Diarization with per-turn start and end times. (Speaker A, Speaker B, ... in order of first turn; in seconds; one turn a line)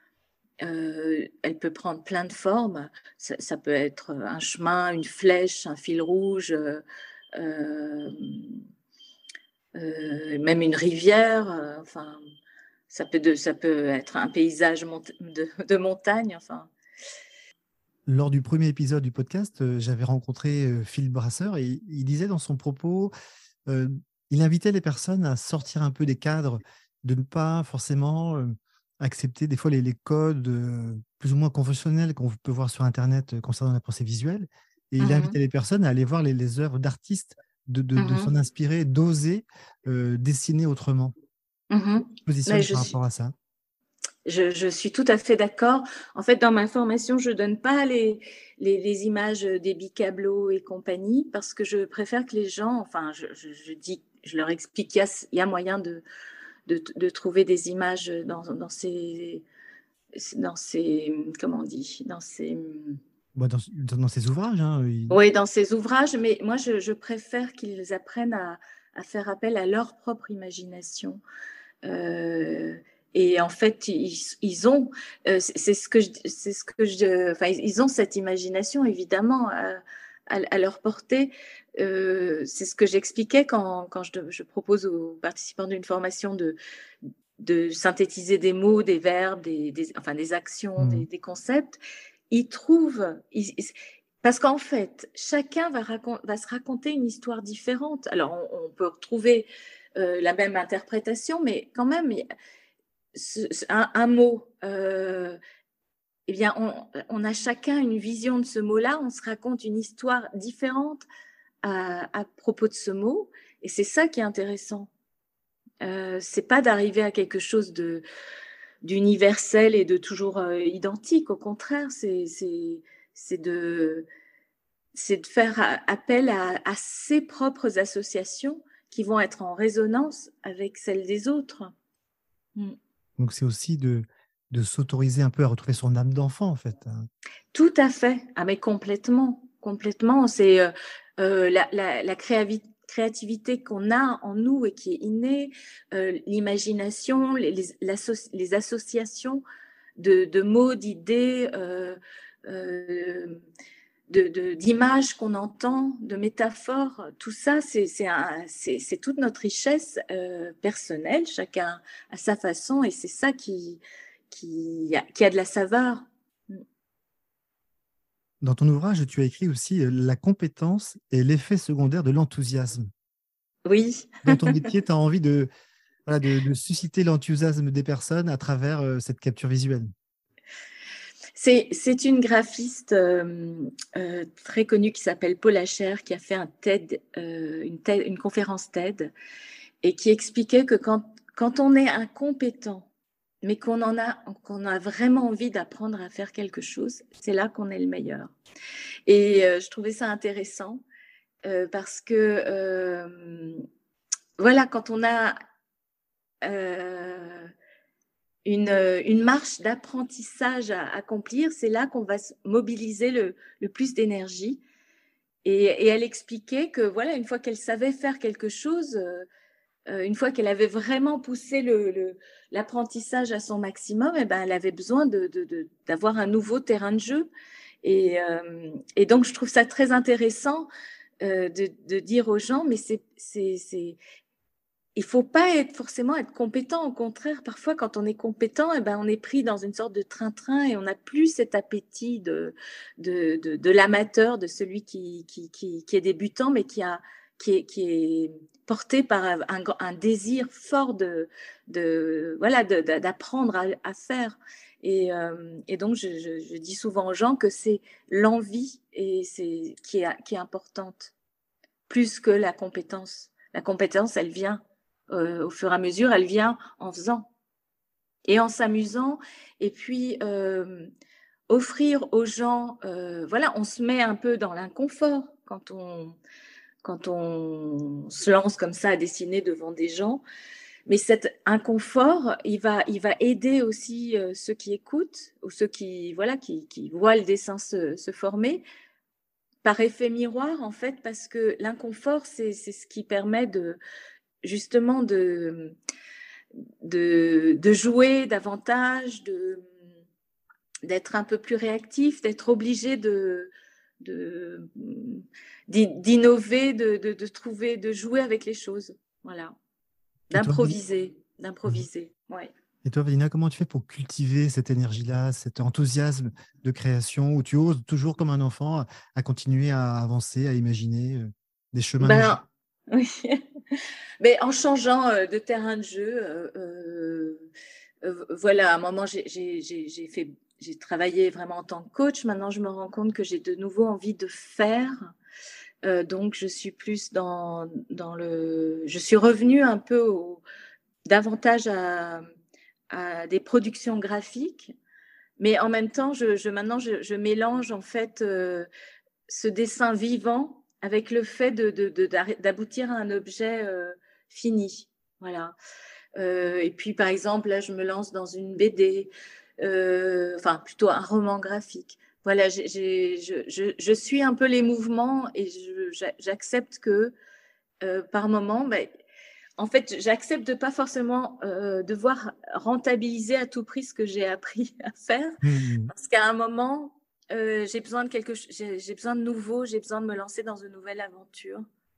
Speaker A: 0.6-6.8
Speaker A: 7.3-8.6
Speaker A: 9.8-12.2
Speaker A: 12.9-16.7
Speaker B: 18.1-23.1
Speaker B: 23.7-41.1
Speaker A: 35.0-35.4
Speaker A: 38.0-38.3
Speaker A: 41.7-42.9
Speaker B: 42.2-43.3
Speaker A: 44.2-56.0
Speaker A: 56.7-59.4
Speaker A: 60.1-63.0
Speaker B: 63.3-65.2
Speaker A: 65.1-71.2
Speaker A: 71.8-86.6
Speaker A: 87.4-91.8
Speaker B: 90.8-91.1
Speaker A: 92.3-102.3
Speaker A: 103.1-105.4
Speaker A: 106.3-111.0
Speaker A: 111.6-114.9
Speaker A: 115.8-118.0
Speaker A: 118.8-124.1
Speaker A: 124.9-131.7
Speaker B: 133.2-137.1
Speaker A: 137.5-149.4
Speaker A: 150.0-153.4
Speaker A: 154.1-166.6
Speaker B: 168.4-172.9
Speaker A: 173.7-174.7
Speaker B: 174.2-175.5
Speaker B: 176.1-179.9
Speaker A: 181.3-189.1
Speaker A: 189.8-192.9
Speaker A: 193.4-198.3
Speaker A: 199.1-200.8
Speaker A: 201.4-203.6
Speaker A: 204.4-205.4
Speaker A: 206.4-207.5
Speaker A: 208.4-214.6
Speaker A: 215.4-219.2
Speaker A: 219.9-227.3
Speaker A: 227.8-230.7
Speaker A: 231.2-234.0
Speaker A: 234.9-261.1
Speaker A: 261.9-267.3
Speaker A: 268.3-270.9
Speaker A: 271.5-276.2
Speaker A: 276.8-280.2
Speaker A: 280.9-288.6
Speaker A: 289.6-293.8
Speaker A: 294.4-295.7
Speaker A: 296.8-299.6
Speaker A: 300.8-303.5
Speaker A: 304.0-309.5
Speaker A: 310.3-312.5
Speaker B: 310.3-310.8
Speaker B: 312.8-322.4
Speaker A: 322.0-323.4
Speaker A: 324.2-327.4
Speaker A: 328.0-335.1
Speaker A: 335.8-340.4
Speaker A: 341.1-342.2
Speaker A: 342.9-344.7
Speaker A: 345.4-348.7
Speaker A: 349.3-355.5
Speaker A: 356.2-367.1
Speaker A: 367.8-368.9
Speaker A: 369.6-375.4
Speaker B: 375.4-375.9
Speaker A: 375.9-381.6